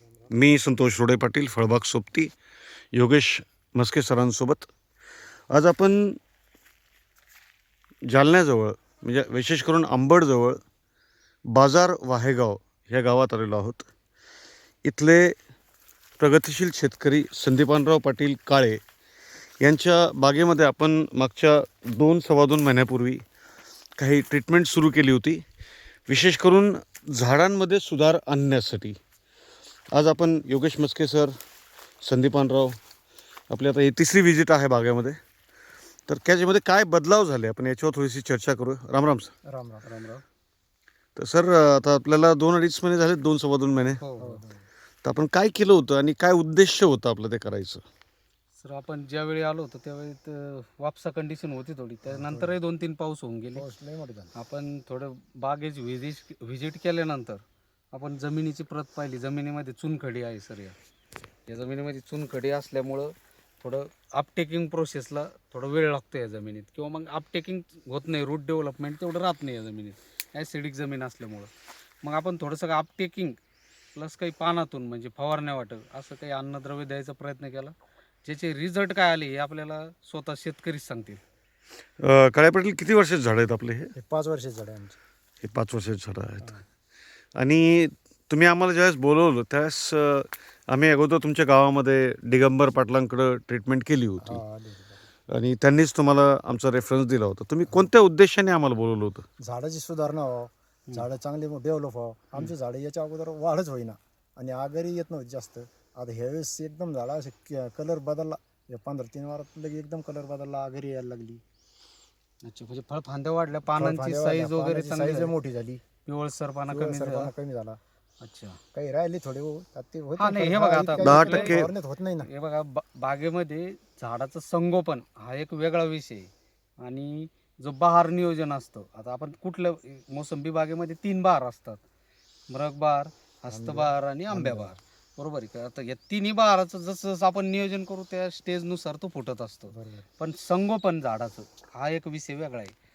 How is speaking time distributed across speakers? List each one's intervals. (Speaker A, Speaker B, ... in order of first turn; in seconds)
Speaker A: 0.3-2.3, 2.9-4.7, 5.5-6.2, 8.1-10.6, 11.6-13.9, 14.9-15.3, 16.2-18.8, 19.6-23.2, 24.0-25.4, 26.1-29.0, 29.9-31.3, 32.0-32.8, 33.5-35.2, 36.1-39.3, 41.2-44.0, 45.0-47.8, 82.0-83.9, 85.4-86.6, 87.4-94.4, 95.3-99.2, 121.0-121.7
Speaker B: 39.5-39.9, 44.2-44.6, 52.1-52.5, 53.5-54.3, 84.0-85.0, 94.2-95.0, 99.4-111.4, 113.7-115.8, 116.7-117.8, 118.7-122.3, 133.5-134.7, 139.7-140.1
Speaker C: 39.8-40.2, 44.0-44.4, 48.6-53.6, 54.4-60.8, 61.5-71.5, 72.0-73.4, 74.0-77.7, 78.2-81.2, 112.4-115.3, 116.1-117.3, 118.2-118.6, 120.2-121.6, 122.2-126.3, 126.8-131.8, 132.5-142.8